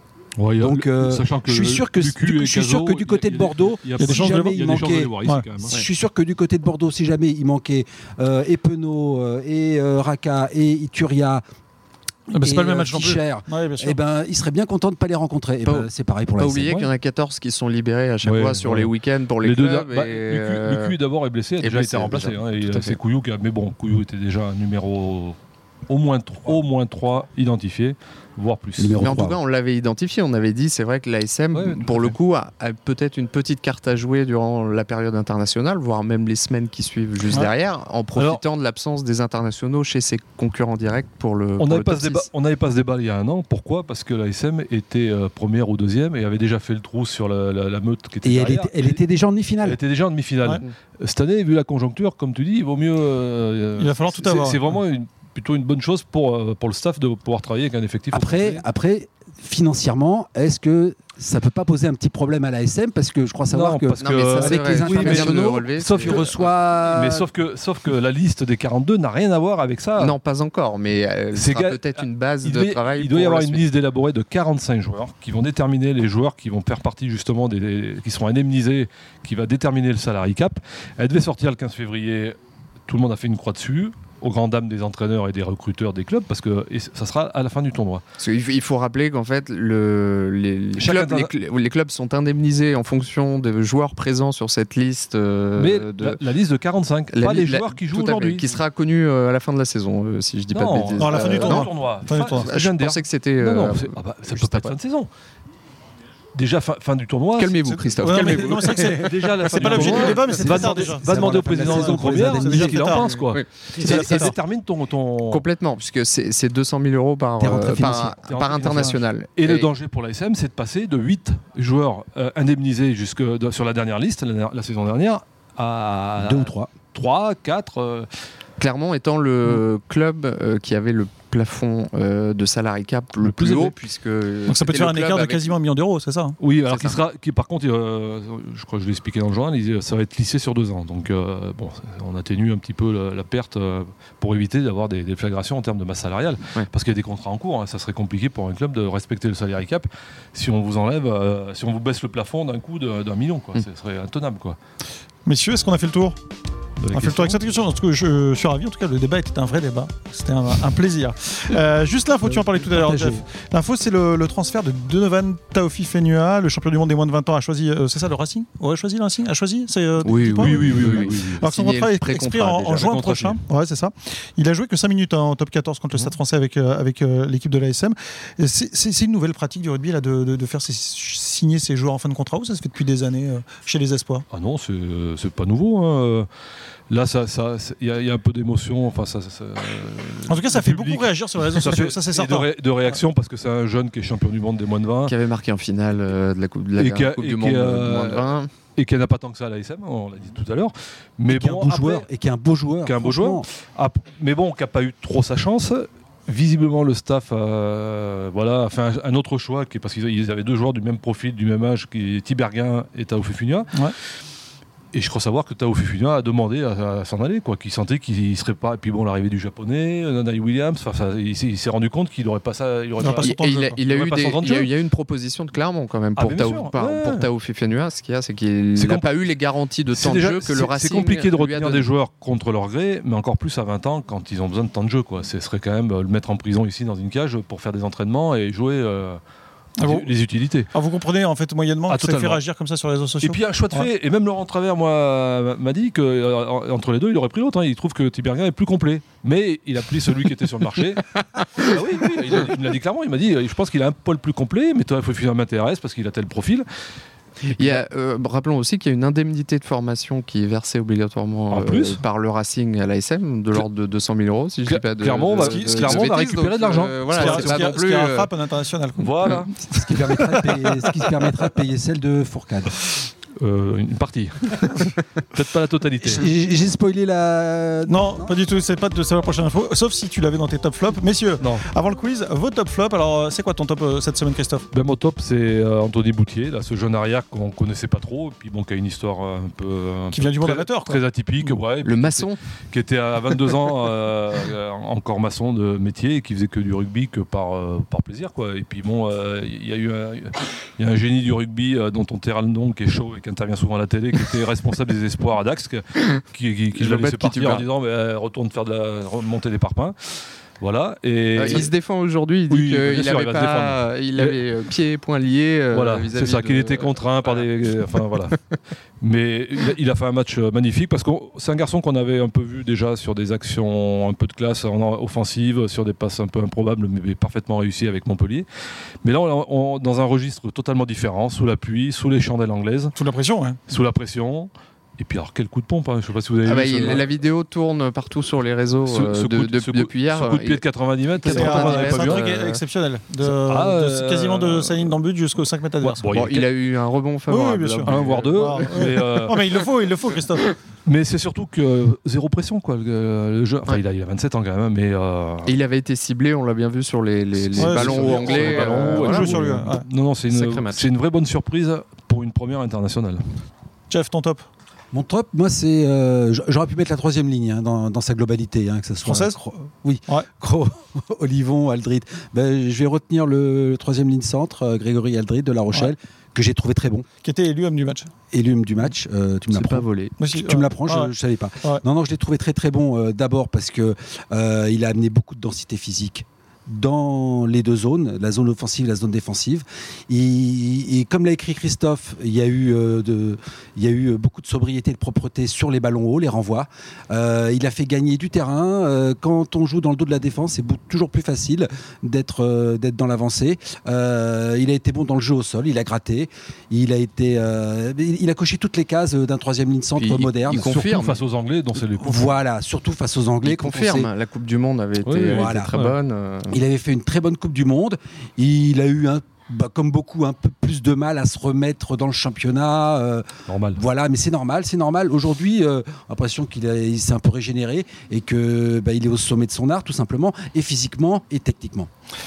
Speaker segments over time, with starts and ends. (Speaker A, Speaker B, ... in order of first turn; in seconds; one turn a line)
Speaker A: 0.4-5.8
Speaker B: 0.6-5.2
Speaker C: 4.0-4.7
Speaker B: 5.7-11.4
Speaker C: 12.3-14.0
Speaker B: 12.3-16.9
Speaker D: 15.7-20.9
Speaker A: 18.2-18.9
Speaker A: 19.4-25.4
Speaker D: 21.6-23.0
Speaker A: 25.9-29.1
Speaker B: 28.8-29.4
Speaker D: 29.0-42.3
Speaker A: 31.5-32.1
Speaker A: 41.6-49.0
Speaker B: 48.2-49.8
Speaker A: 49.6-58.6
Speaker C: 53.8-54.6
Speaker B: 58.1-67.3
Speaker A: 63.5-70.2
Speaker D: 64.0-66.3
Speaker D: 70.0-73.6
Speaker A: 71.3-82.4
Speaker A: 82.9-88.0
Speaker D: 88.2-96.2
Speaker A: 90.8-91.3
Speaker A: 95.6-98.6
Speaker D: 97.1-104.8
Speaker A: 100.5-105.1
Speaker C: 101.0-102.5
Speaker A: 106.3-115.4
Speaker D: 107.4-109.0
Speaker C: 108.0-113.2
Speaker B: 109.6-113.0
Speaker D: 113.3-114.2
Speaker C: 113.8-114.3
Speaker D: 115.3-119.7
Speaker B: 117.4-118.2
Speaker A: 117.7-128.1
Speaker B: 126.2-126.7
Speaker D: 128.6-135.5
Speaker A: 133.2-133.7
Speaker C: 134.5-136.4
Speaker A: 136.4-154.6
Speaker D: 136.7-137.0
Speaker C: 155.3-156.2
Speaker A: 156.8-157.5
Speaker C: 156.9-184.2
Speaker B: 162.2-163.2
Speaker D: 170.0-173.0
Speaker A: 170.4-171.4
Speaker A: 172.8-173.4
Speaker A: 184.3-186.3
Speaker A: 186.9-195.1
Speaker C: 190.3-192.5
Speaker D: 195.1-198.5
Speaker A: 196.8-202.1
Speaker B: 201.3-203.5
Speaker A: 202.8-213.9
Speaker A: 214.9-224.7
Speaker C: 223.0-223.7
Speaker D: 223.2-231.9
Speaker A: 226.2-227.3
Speaker A: 228.8-229.1
Speaker A: 229.9-239.2
Speaker C: 239.8-240.1
Speaker A: 239.8-240.7
Speaker C: 240.7-243.9
Speaker A: 241.9-242.4
Speaker A: 243.2-256.7
Speaker D: 257.5-268.3
Speaker A: 257.5-257.8
Speaker A: 261.5-262.0
Speaker A: 264.7-267.7
Speaker C: 265.4-266.1
Speaker C: 267.1-271.1
Speaker A: 269.0-269.5
Speaker B: 269.7-272.8
Speaker A: 273.4-276.2
Speaker B: 276.0-278.3
Speaker C: 277.9-284.7
Speaker A: 281.4-281.7
Speaker A: 284.7-310.0
Speaker C: 290.1-291.0
Speaker D: 291.8-292.4
Speaker D: 306.8-307.7
Speaker A: 310.6-311.7
Speaker D: 311.4-317.5
Speaker A: 312.5-314.4
Speaker A: 315.7-318.4
Speaker A: 319.0-328.5
Speaker A: 329.0-332.9
Speaker C: 333.0-333.6
Speaker A: 333.7-337.1
Speaker D: 336.4-340.6
Speaker A: 338.9-342.4
Speaker D: 341.2-342.6
Speaker C: 341.2-346.1
Speaker A: 343.2-345.0
Speaker A: 345.8-346.5
Speaker D: 346.1-348.9
Speaker C: 347.3-350.5
Speaker A: 347.9-349.7
Speaker A: 350.9-355.5
Speaker D: 355.4-359.5
Speaker A: 357.4-363.2
Speaker C: 357.6-359.9
Speaker D: 360.3-360.9
Speaker C: 363.9-364.5
Speaker B: 364.9-377.1
Speaker C: 369.1-369.4
Speaker C: 377.2-378.1
Speaker B: 378.3-410.7
Speaker D: 379.5-380.1
Speaker C: 380.2-381.1
Speaker D: 410.0-411.2
Speaker A: 410.5-412.4
Speaker B: 412.0-414.1
Speaker D: 413.4-416.6
Speaker A: 415.0-416.0
Speaker B: 415.3-415.7
Speaker B: 416.5-431.9
Speaker A: 423.5-423.8